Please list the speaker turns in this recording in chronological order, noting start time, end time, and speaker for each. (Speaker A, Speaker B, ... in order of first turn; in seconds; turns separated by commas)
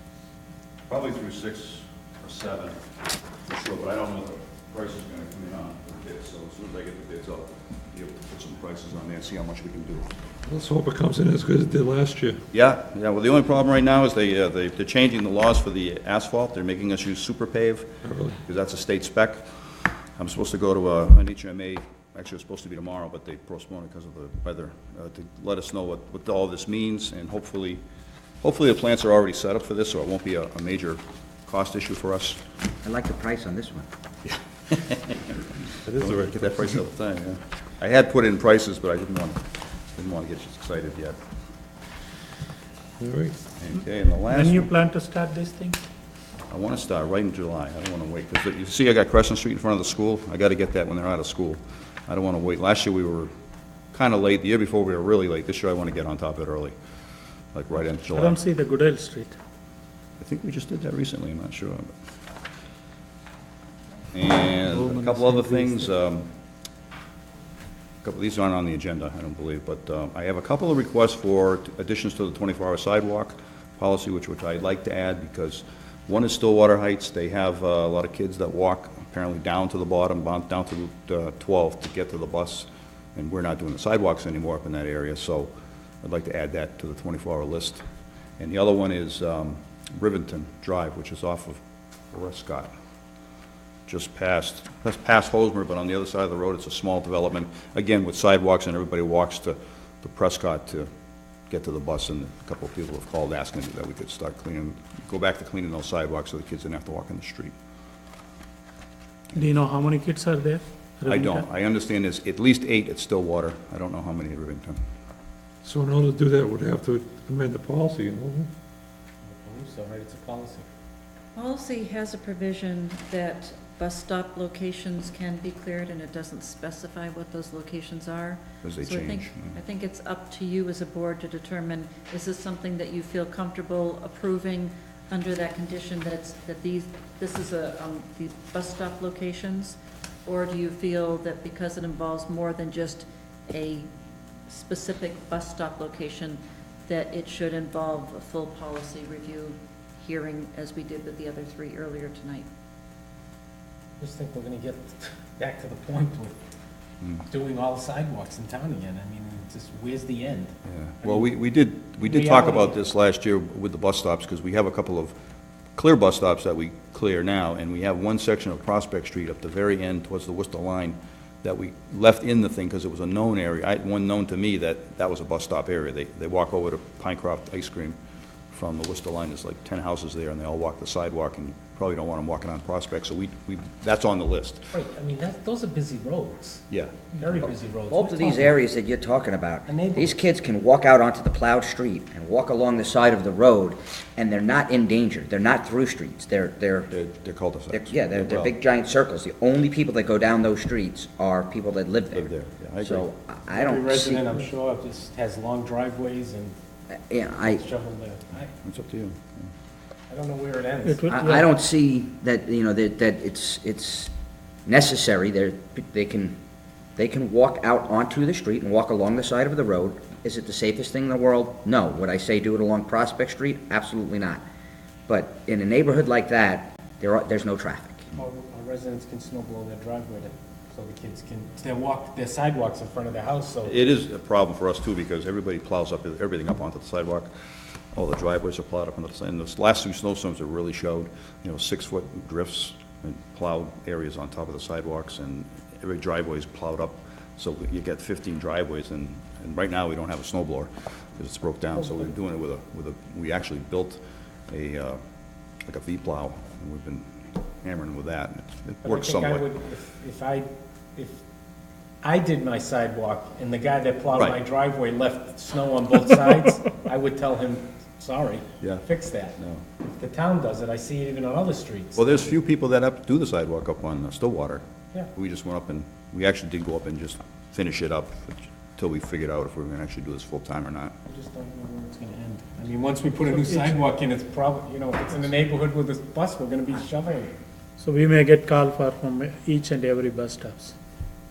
Speaker A: 0.9-2.8, Speaker A: 3.5-10.1, Speaker B: 10.5-12.4, Speaker A: 12.5-17.9, Speaker B: 18.0-18.4, Speaker A: 18.4-19.4, Speaker A: 20.2-27.8, Speaker A: 28.4-32.4, Speaker C: 32.8-33.9, Speaker A: 34.7-35.3, Speaker B: 35.9-36.7, Speaker A: 36.0-41.1, Speaker B: 43.0-43.4, Speaker A: 43.6-44.7, Speaker D: 44.3-45.8, Speaker A: 46.5-53.3, Speaker A: 53.9-56.7, Speaker A: 57.5-58.4, Speaker D: 58.1-59.3, Speaker A: 60.2-61.9, Speaker A: 64.1-66.3, Speaker D: 64.7-65.7, Speaker A: 68.0-85.5, Speaker A: 86.0-87.8, Speaker A: 88.4-91.6, Speaker A: 92.1-92.7, Speaker A: 93.9-100.9, Speaker A: 101.5-107.5, Speaker D: 109.3-111.4, Speaker A: 111.0-114.8, Speaker B: 115.6-118.5, Speaker E: 119.3-120.7, Speaker F: 121.3-143.9, Speaker A: 128.6-129.6, Speaker F: 144.5-152.5, Speaker E: 154.0-156.3, Speaker E: 157.3-160.5, Speaker A: 160.7-165.1, Speaker E: 161.0-161.3, Speaker E: 162.0-162.8, Speaker A: 165.8-177.9, Speaker A: 178.5-184.7, Speaker E: 184.7-186.6, Speaker A: 186.7-187.1, Speaker E: 187.2-188.5, Speaker C: 187.9-196.9, Speaker E: 189.7-190.1, Speaker A: 196.9-198.5, Speaker C: 197.7-202.3, Speaker A: 202.1-203.1, Speaker C: 202.8-204.3, Speaker E: 203.5-206.5, Speaker C: 206.9-207.6, Speaker E: 207.5-208.5, Speaker A: 208.6-209.5, Speaker E: 210.1-211.1, Speaker D: 210.8-211.4, Speaker C: 211.1-214.1, Speaker C: 214.7-216.4, Speaker C: 217.0-224.4, Speaker C: 225.1-228.1, Speaker E: 228.2-233.7, Speaker A: 233.6-237.3, Speaker A: 237.9-255.0, Speaker A: 255.6-257.1, Speaker A: 257.6-259.5, Speaker E: 258.8-261.1, Speaker E: 262.0-269.3, Speaker A: 269.4-269.6, Speaker E: 269.9-272.2, Speaker A: 271.9-274.6, Speaker A: 275.1-280.9, Speaker E: 281.1-287.3, Speaker D: 283.3-283.8, Speaker D: 287.8-290.7